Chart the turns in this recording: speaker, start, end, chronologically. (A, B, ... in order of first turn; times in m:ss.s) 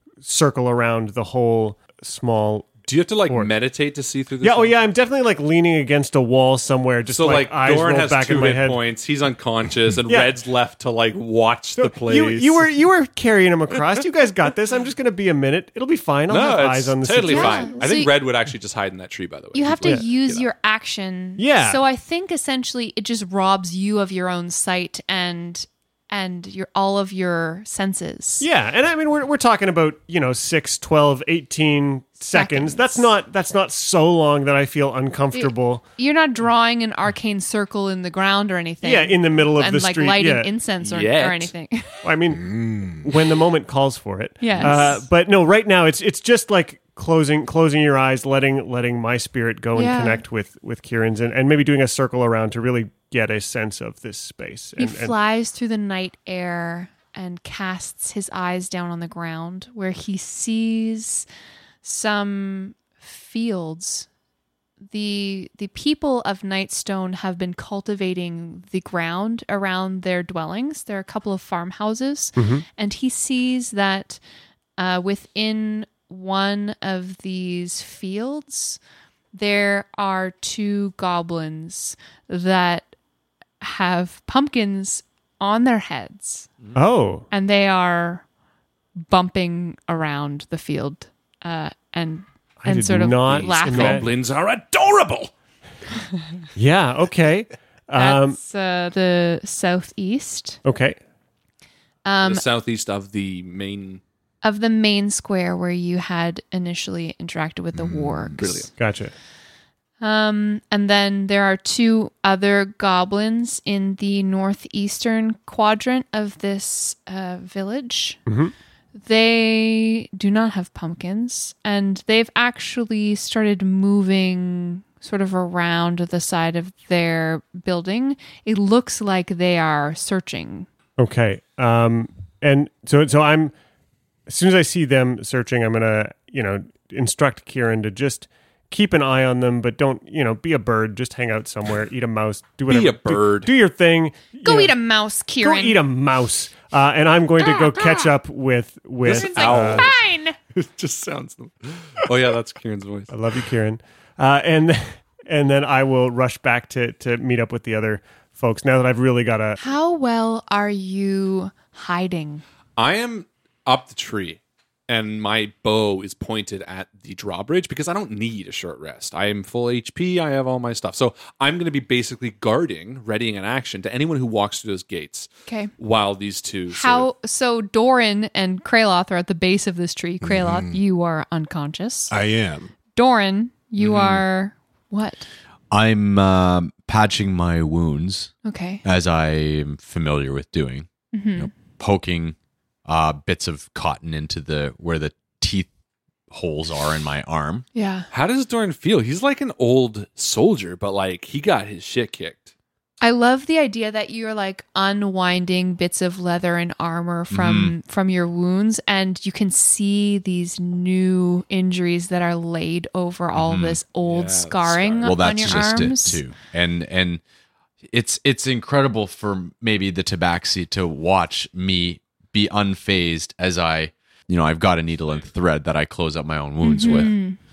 0:00.2-0:03.5 A
0:02.8-0:04.8 B
0:04.4-0:08.8 A
0:07.1-0:12.7 B
0:10.0-0:10.4 A
0:11.8-0:17.7 A
0:16.3-0:20.5 B
0:17.2-0:18.1 C
0:19.5-0:28.5 C
0:19.8-0:20.1 A
0:21.4-0:21.8 A
0:28.4-0:35.8 A
0:32.3-0:33.1 C
0:35.3-0:42.0 C
0:38.8-0:40.5 A
0:40.8-0:41.5 B
0:42.0-0:55.1 A
0:42.4-0:43.1 D
0:44.4-0:45.0 C
0:49.7-0:50.2 C
0:54.8-1:01.2 C
1:01.8-1:04.1 C
1:04.9-1:14.2 C
1:12.4-1:12.6 A
1:14.8-1:18.8 C
1:19.3-1:22.9 C
1:23.6-1:26.5 C
1:26.7-1:27.3 A
1:27.3-1:28.2 C
1:29.1-1:34.0 C
1:32.6-1:34.1 A
1:33.3-1:35.3 B
1:36.6-1:38.4 A
1:37.9-1:40.6 C
1:40.6-1:41.0 A
1:42.0-1:42.4 C
1:42.2-1:44.0 B
1:44.4-1:48.7 C
1:47.8-1:48.4 D
1:48.4-1:48.7 B
1:48.8-1:49.1 A
1:50.0-1:58.2 C
1:58.3-1:58.5 A
1:58.9-2:10.7 C
2:11.0-2:13.5 A
2:14.3-2:24.7 A
2:22.7-2:23.5 B
2:24.4-2:25.8 C
2:25.4-2:29.9 A
2:27.4-2:28.1 C
2:29.0-2:30.0 B
2:29.0-2:30.4 C
2:30.5-2:33.2 B
2:33.1-2:39.6 A
2:39.6-2:42.4 C
2:42.8-2:57.1 B
2:56.7-3:02.1 C
3:00.2-3:00.8 D
3:02.1-3:02.7 D
3:02.9-3:05.3 C
3:03.8-3:04.2 B
3:05.7-3:08.3 E
3:08.4-3:08.8 C
3:08.8-3:15.7 E
3:11.1-3:11.5 C
3:16.3-3:17.6 E
3:17.7-3:18.1 C
3:18.1-3:22.5 B
3:23.0-3:36.2 C
3:27.3-3:27.7 E
3:33.3-3:33.8 E
3:34.0-3:35.9 B
3:35.0-3:37.2 E
3:37.9-3:47.1 E
3:46.6-3:47.4 C